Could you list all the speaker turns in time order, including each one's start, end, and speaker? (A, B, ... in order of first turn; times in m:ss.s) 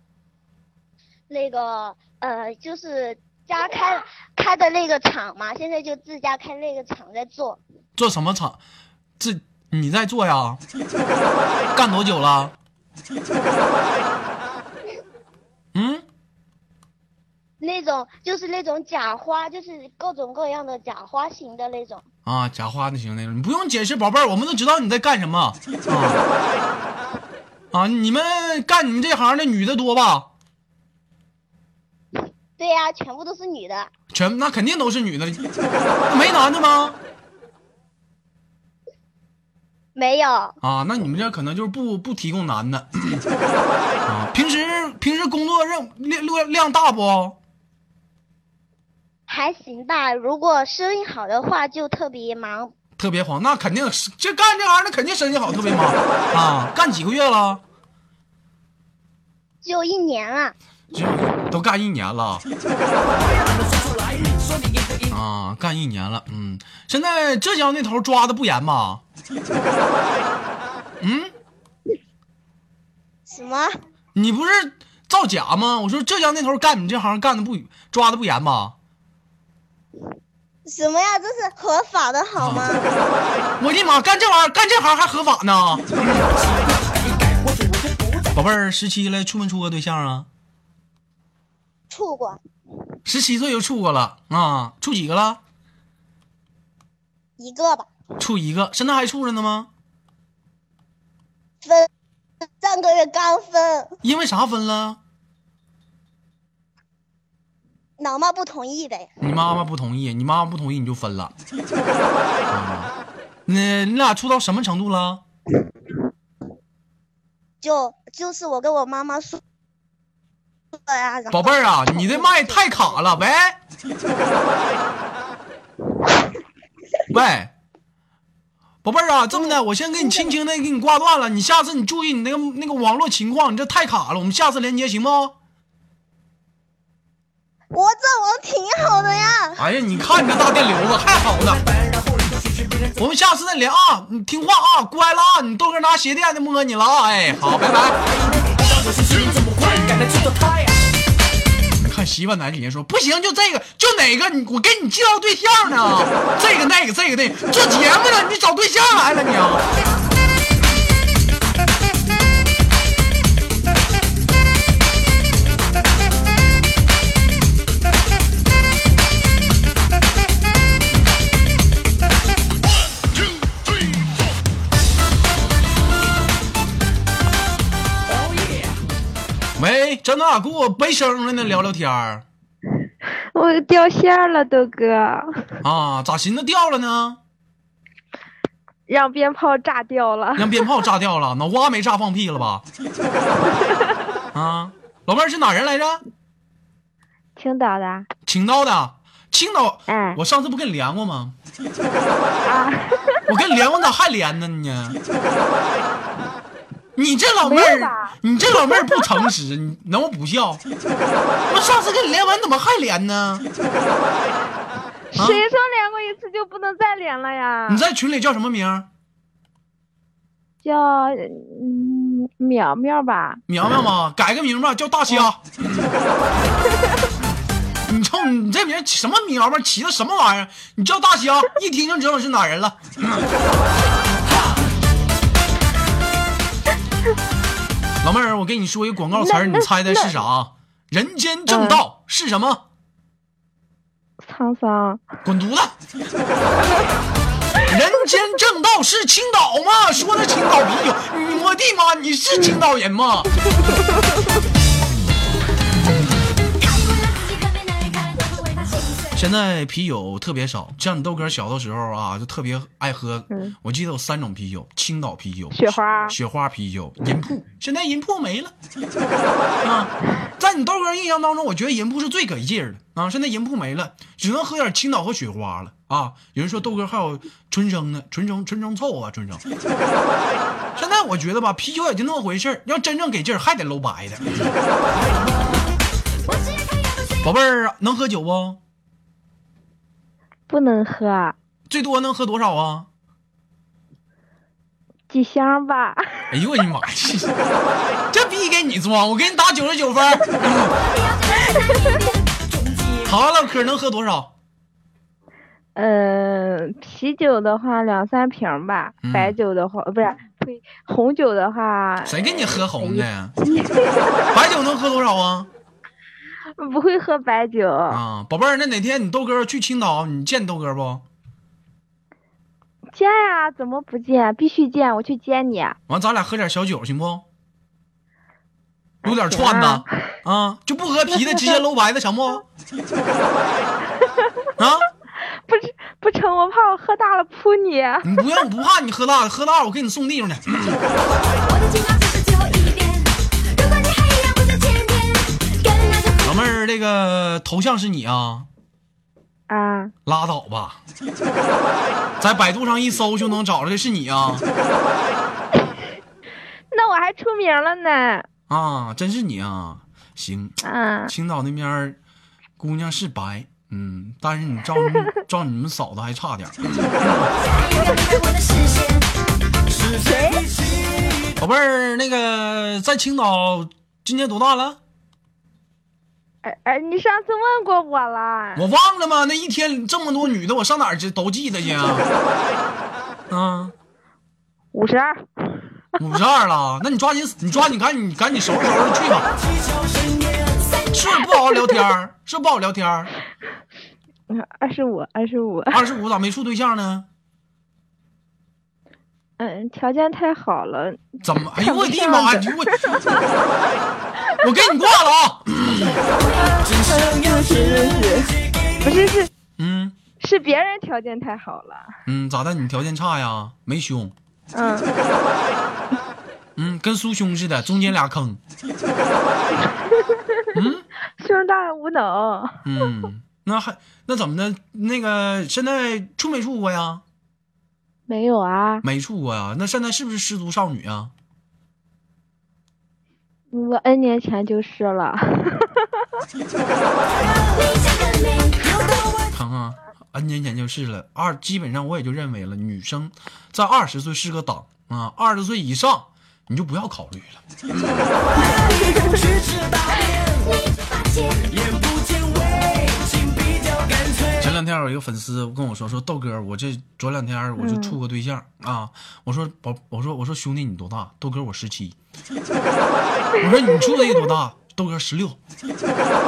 0:01.3-0:07.6 A
0:08.0-0:08.6 B
0:09.2-0:10.6 B
0:11.8-0:12.6 B
0:15.8-0:16.0 B
0:17.6-0:22.0 A
0:22.3-0:26.2 B
0:27.7-0:30.3 B
0:32.6-0:33.9 A
0:34.1-0:35.4 B
0:36.1-0:37.0 B
0:40.0-0:40.6 A
0:40.6-0:43.2 B
0:44.1-0:47.4 B
0:49.3-0:52.7 A
0:53.0-0:57.6 B
0:59.6-1:00.6 A
1:00.9-1:02.5 B
1:03.2-1:05.2 C
1:05.1-1:09.0 B
1:11.0-1:11.3 B
1:13.3-1:13.7 A
1:14.2-1:18.8 B
1:20.6-1:22.9 A
1:22.4-1:22.7 B
1:23.6-1:26.3 B
1:26.3-1:28.4 C
1:28.4-1:30.3 B
1:31.9-1:32.4 A
1:33.1-1:35.4 B
1:37.4-1:37.9 A
1:38.2-1:39.7 B
1:41.6-1:41.9 A
1:42.6-1:44.0 A
1:44.0-1:45.0 B
1:48.0-1:49.1 A
1:49.2-1:51.3 B
1:52.5-1:52.9 B
1:53.5-1:55.2 B
1:57.6-1:59.4 A
2:00.7-2:03.0 A
2:01.3-2:03.6 B
2:07.1-2:07.5 B
2:08.8-2:15.4 B
2:09.3-2:10.3 A
2:17.7-2:19.6 A
2:19.6-2:21.6 B
2:21.4-2:23.0 C
2:23.0-2:28.0 B
2:28.1-2:30.8 C
2:31.8-2:39.6 B
2:58.1-2:58.8 C
2:59.6-3:02.2 B
3:03.1-3:05.5 D
3:05.6-3:07.2 B
3:08.9-3:10.7 D
3:10.4-3:12.6 B
3:13.5-3:14.1 D
3:14.3-3:16.0 B
3:17.4-3:18.1 D
3:18.3-3:21.4 B
3:19.9-3:20.2 D
3:22.4-3:23.4 D
3:23.3-3:25.0 B
3:27.0-3:30.6 B
3:27.4-3:29.0 D
3:31.5-3:33.5 B
3:35.1-3:37.8 D
3:35.2-3:35.5 B
3:37.7-3:38.9 B
3:40.6-3:43.4 D
3:43.5-3:45.9 B
3:47.9-3:53.3 B
3:58.0-4:02.6 B
3:59.1-4:00.1 D
4:01.5-4:01.8 D
4:04.2-4:05.0 D
4:05.2-4:05.8 B
4:07.7-4:13.3 B
4:16.6-4:19.2 E
4:19.2-4:28.5 B
4:25.5-4:26.2 D
4:29.6-4:39.4 B
4:40.8-4:44.5 B
4:45.0-4:45.6 C
4:46.3-4:47.2 E
4:47.2-4:48.6 B
4:50.5-4:51.4 D
4:51.7-4:52.9 B
4:55.1-4:56.4 D
4:56.3-4:57.3 B
4:58.1-5:00.7 B
5:00.7-5:02.3 E
5:02.5-5:03.1 C
5:03.1-5:04.3 B
5:05.8-5:14.3 D
5:09.0-5:09.4 B
5:12.1-5:13.3 B
5:14.3-5:15.5 B
5:16.6-5:18.0 D
5:17.9-5:21.0 B
5:22.9-5:25.8 D
5:25.9-5:27.2 B
5:29.0-5:32.4 B
5:29.0-5:29.9 D
5:31.1-5:31.6 D
5:34.6-5:34.9 B
5:35.3-5:38.2 D
5:38.0-5:40.8 B
5:41.4-5:46.5 E
5:46.2-5:48.5 B
5:49.5-5:49.9 D
5:50.1-5:50.8 B
5:52.2-5:54.5 B
5:56.7-5:58.3 D
5:58.5-6:02.0 B
6:00.6-6:01.1 D
6:02.6-6:07.3 B
6:07.4-6:09.1 E
6:09.7-6:11.3 C
6:10.0-6:10.4 D
6:11.4-6:14.8 B
6:16.4-6:18.7 D
6:18.6-6:22.1 B
6:23.3-6:23.7 B
6:24.7-6:25.8 D
6:26.0-6:29.3 B
6:29.3-6:30.8 C
6:30.9-6:33.1 B
6:34.3-6:35.9 D
6:35.7-6:37.1 B
6:39.4-6:43.4 D
6:41.2-6:42.8 B
6:44.4-6:46.0 B
6:46.4-6:49.3 D
6:46.6-6:48.3 C
6:49.6-6:50.0 B
6:50.2-6:51.9 D
6:52.1-6:54.2 B
6:54.5-6:54.9 D
6:56.6-6:58.4 B
6:59.6-7:00.6 D
7:00.6-7:00.8 B
7:01.2-7:02.6 D
7:02.6-7:07.0 B
7:08.1-7:08.8 D
7:08.8-7:11.1 B
7:13.5-7:16.0 D
7:17.3-7:19.1 E
7:19.3-7:28.0 B
7:28.4-7:30.5 C
7:30.4-7:31.5 E
7:31.5-7:34.5 C
7:34.4-7:42.0 B
7:37.6-7:38.0 D
7:43.4-7:45.4 B